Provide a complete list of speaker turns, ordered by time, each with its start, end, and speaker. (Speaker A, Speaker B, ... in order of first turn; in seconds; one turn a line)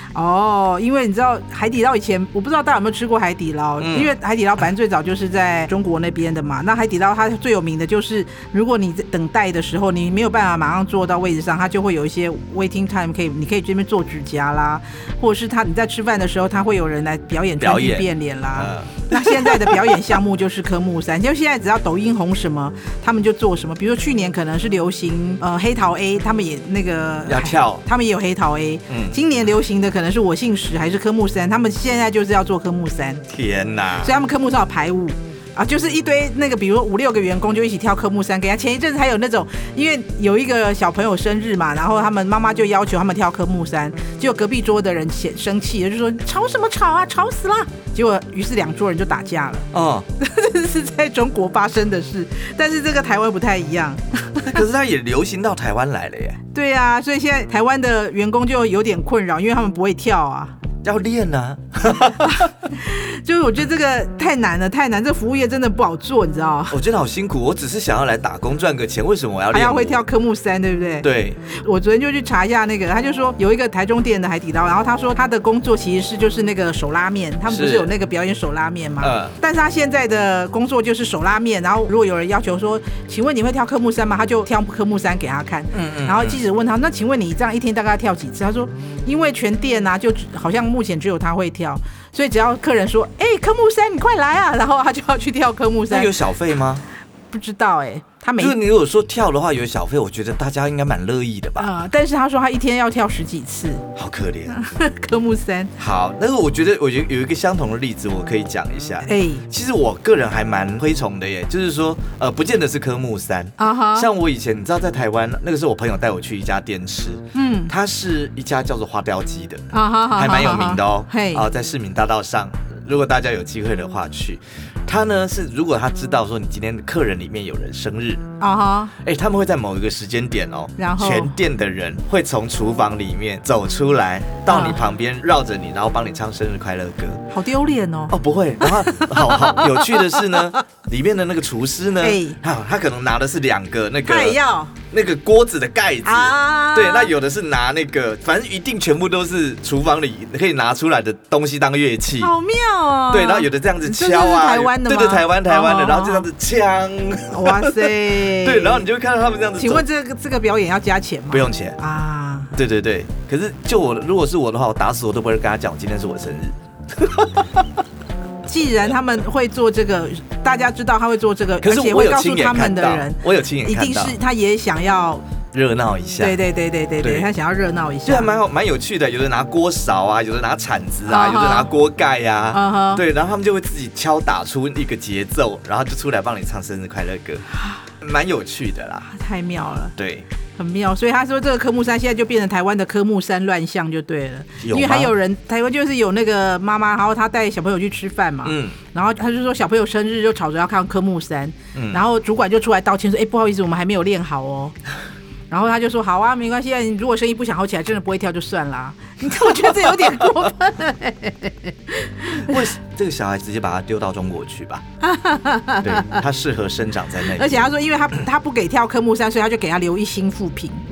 Speaker A: 0.1-33.2
Speaker B: 3.8-4.2
Speaker B: 17.6-20.0
Speaker B: 27.3-27.8
Speaker B: 28.9-29.2
Speaker B: 33.3-34.1
Speaker A: 34.0-54.6
Speaker B: 49.7-50.1
Speaker B: 54.4-56.4
Speaker A: 56.5-60.5
Speaker B: 60.8-62.5
Speaker A: 62.2-66.8
Speaker B: 66.7-70.0
Speaker A: 69.5-96.1
Speaker B: 71.0-71.4
Speaker B: 77.5-77.9
Speaker B: 79.0-79.3
Speaker B: 85.7-86.4
Speaker B: 95.9-96.8
Speaker A: 97.3-98.6
Speaker B: 98.4-101.7
Speaker A: 101.6-103.9
Speaker B: 103.9-104.6
Speaker A: 104.5-105.7
Speaker B: 105.8-128.2
Speaker A: 109.0-109.5
Speaker A: 113.6-114.1
Speaker A: 117.3-117.7
Speaker A: 119.7-121.4
Speaker A: 128.4-128.9
Speaker B: 129.0-137.2
Speaker A: 130.8-131.3
Speaker A: 134.5-134.8
Speaker A: 137.3-140.6
Speaker B: 138.1-144.4
Speaker A: 142.0-142.4
Speaker A: 144.0-144.7
Speaker B: 144.9-152.3
Speaker A: 146.0-147.1
Speaker A: 152.2-156.3
Speaker B: 153.1-159.8
Speaker A: 157.3-158.9
Speaker A: 159.6-162.5
Speaker B: 161.3-161.8
Speaker B: 162.5-167.7
Speaker A: 168.4-175.2
Speaker B: 171.6-174.1
Speaker B: 175.5-176.4
Speaker A: 176.2-178.3
Speaker B: 177.0-177.3
Speaker B: 178.0-187.4
Speaker A: 181.1-181.7
Speaker A: 182.5-183.0
Speaker A: 187.5-187.8
Speaker B: 188.0-189.1
Speaker A: 189.1-189.9
Speaker B: 189.9-190.3
Speaker A: 190.6-204.8
Speaker B: 194.6-195.1
Speaker B: 198.4-198.8
Speaker B: 201.7-202.0
Speaker A: 205.5-212.7
Speaker B: 209.3-210.3
Speaker B: 212.3-214.8
Speaker A: 215.0-216.2
Speaker B: 215.8-217.6
Speaker A: 217.2-220.8